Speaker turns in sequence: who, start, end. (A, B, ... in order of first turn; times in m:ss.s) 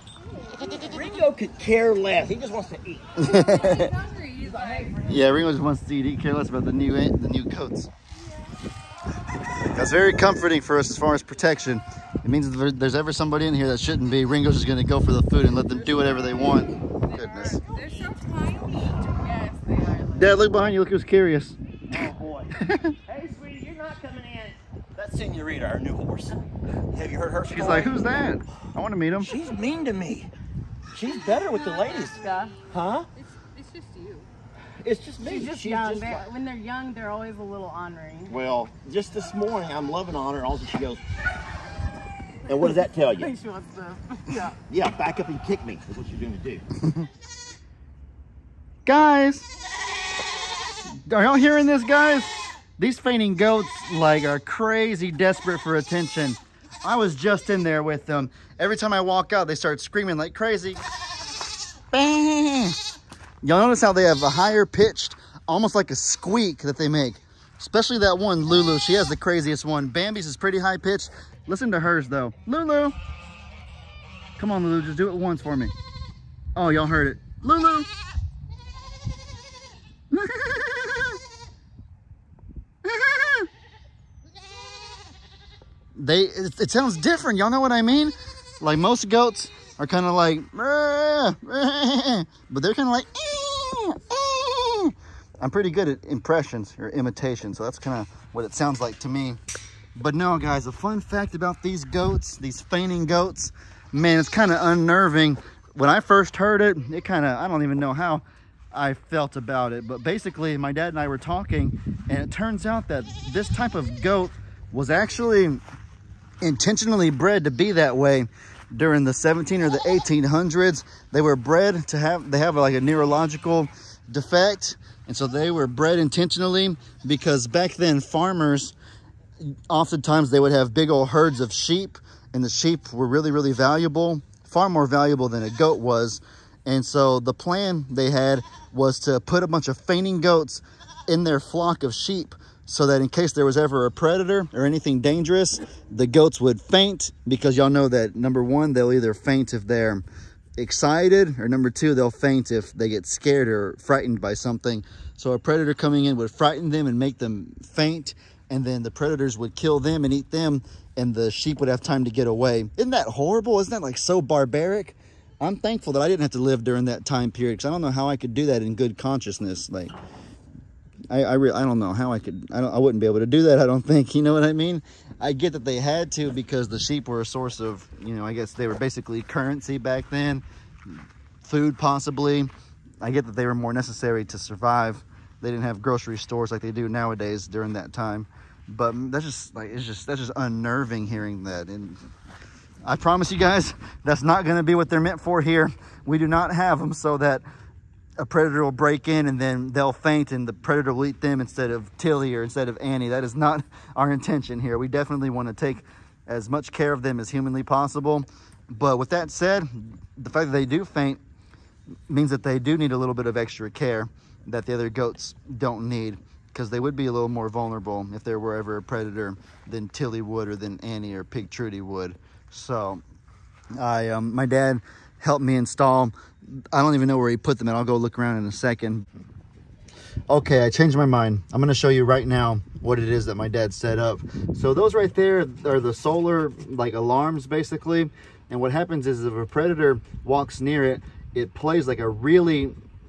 0:00.4-0:00.9 A
0:00.8-0:05.5 B
0:03.2-0:03.9 C
0:03.3-0:04.9 A
0:05.1-0:07.9 C
0:09.7-0:17.6 C
0:17.2-0:20.7 A
0:17.4-0:19.0 B
0:20.2-0:21.6 C
0:21.9-0:22.6 B
0:22.6-0:23.0 C
0:23.1-0:26.4 B
0:26.9-0:28.3 B
0:27.5-0:29.4 C
0:27.6-0:27.9 A
0:29.2-0:30.3 B
0:30.9-0:33.1 B
0:31.2-0:32.7 A
0:33.4-0:34.3 A
0:34.8-0:36.3 B
0:35.2-0:38.4 A
0:38.3-0:41.0 B
0:42.5-0:43.3 B
0:42.5-0:44.6 A
0:44.7-0:46.6 B
0:48.9-0:49.5 C
0:51.1-1:00.8 C
1:01.9-1:02.8 C
1:03.4-1:13.0 C
1:14.4-1:15.7 C
1:16.6-1:17.9 C
1:20.1-1:21.2 C
1:22.9-1:23.5 C
1:26.0-1:39.4 C
1:40.0-1:55.6 C
1:56.4-2:08.7 C
2:09.7-2:30.0 C
2:30.6-2:49.9 C
2:51.1-3:02.5 C
3:03.0-3:12.0 C
3:12.8-3:17.4 C
3:18.2-3:31.2 C
3:32.1-3:43.0 C
3:43.8-3:46.1 C
3:46.7-3:49.0 C
3:50.3-4:02.8 C